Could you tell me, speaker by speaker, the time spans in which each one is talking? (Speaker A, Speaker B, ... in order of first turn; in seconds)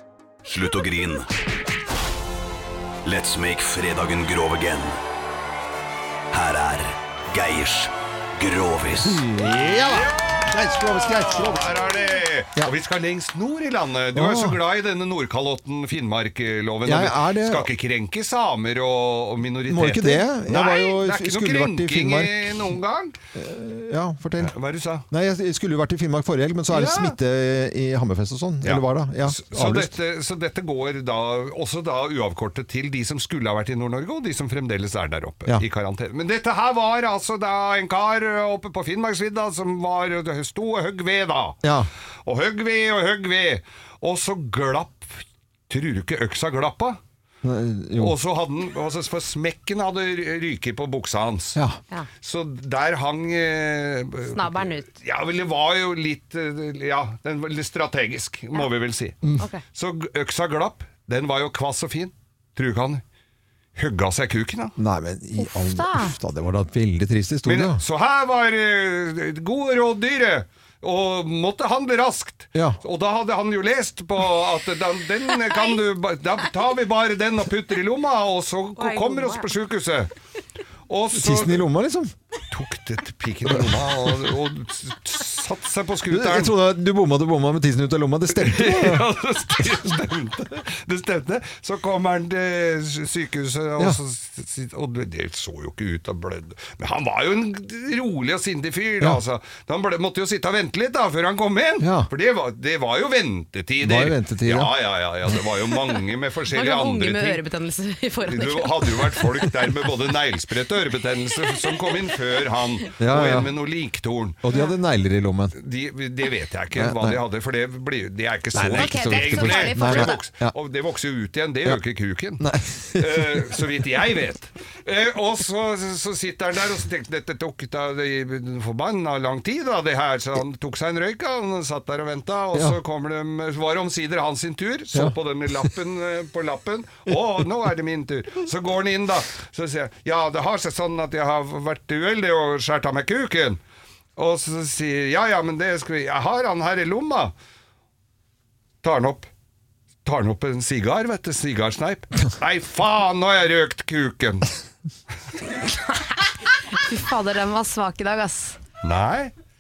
Speaker A: 0.5-1.3, 3.0-5.0, 6.3-9.2
Speaker B: 9.0-11.9, 14.1-14.6, 16.9-17.7, 19.7-22.8, 23.4-24.6, 25.1-29.9, 41.6-41.9, 47.4-48.2, 64.8-67.8, 81.1-82.1, 83.5-84.1, 86.1-89.1, 101.8-102.1, 103.8-104.8, 113.0-113.6, 114.4-115.6, 116.8-117.2, 118.5-120.5, 122.4-123.7, 132.5-132.8, 134.9-135.7
Speaker C: 9.5-23.2, 24.4-25.1, 26.7-27.2, 28.6-41.6, 42.2-47.0, 48.0-51.6, 52.2-63.0, 63.8-64.8, 67.5-80.1, 80.9-81.7, 82.5-86.6, 88.3-107.4, 108.2-114.4, 115.5-143.6, 144.2-147.3, 148.8-149.3, 150.1-154.5, 158.8-159.3
Speaker D: 54.3-54.9, 65.4-66.2, 78.8-79.5, 106.5-109.5, 118.8-120.2, 155.6-158.6